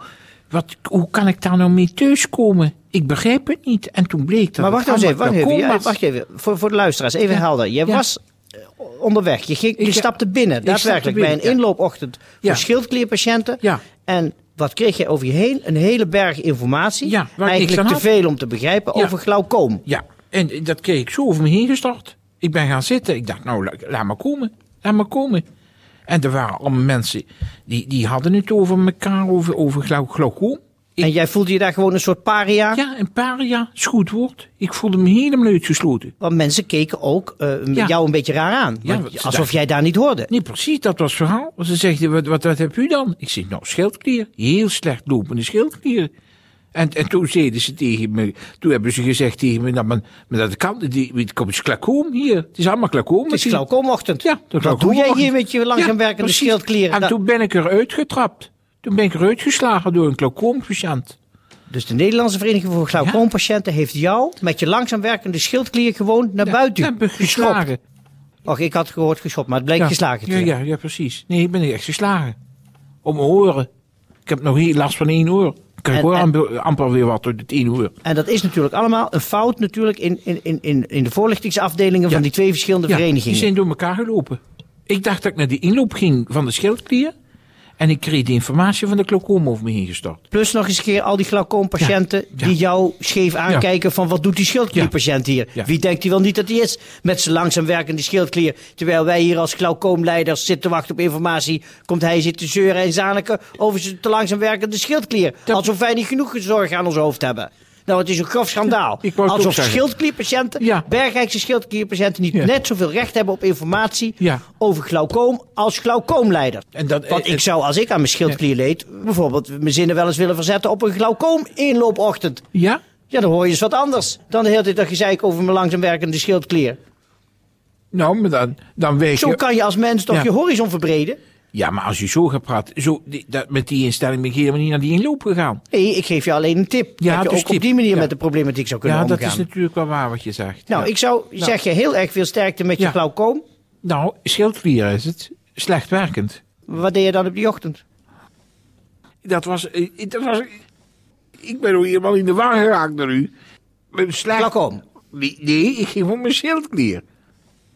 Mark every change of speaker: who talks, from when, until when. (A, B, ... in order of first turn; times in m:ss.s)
0:00.5-0:06.0 A
0:04.6-0:19.8 B
0:07.3-0:08.0 A
0:09.8-0:10.1 A
0:10.6-0:11.6 A
0:17.0-0:18.1 A
0:19.9-0:25.4 A
0:26.1-0:31.1 A
0:31.0-0:32.8 B
0:32.7-0:36.1 A
0:36.2-0:40.3 B
0:38.8-0:39.5 A
0:40.3-0:46.1 A
0:46.7-0:53.6 A
0:53.3-0:57.2 B
0:54.2-1:01.2 A
1:01.7-1:07.7 B
1:06.4-1:07.8 A
1:08.4-1:10.5 B
1:09.8-1:12.4 A
1:13.0-1:13.7 A
1:14.3-1:17.9 A
1:15.9-1:16.3 B
1:18.0-1:23.5 B
1:22.9-1:27.1 A
1:27.8-1:30.2 A
1:30.3-2:02.5 B
1:31.8-1:32.5 A
1:49.0-1:49.8 A
1:50.6-1:50.9 A
1:56.8-1:57.5 A
2:02.5-2:02.8 A
2:03.1-2:06.8 B
2:07.9-2:09.4 A
2:09.2-2:11.2 B
2:11.5-2:15.6 A
2:15.7-2:19.5 B
2:17.0-2:18.1 A
2:18.8-2:21.5 A
2:20.7-2:23.4 B
2:23.8-2:26.4 A
2:26.7-2:27.8 B
2:29.2-2:30.6 A
2:31.4-2:33.3 A
2:33.9-2:34.5 A
2:34.3-2:34.8 B
2:35.1-2:37.0 A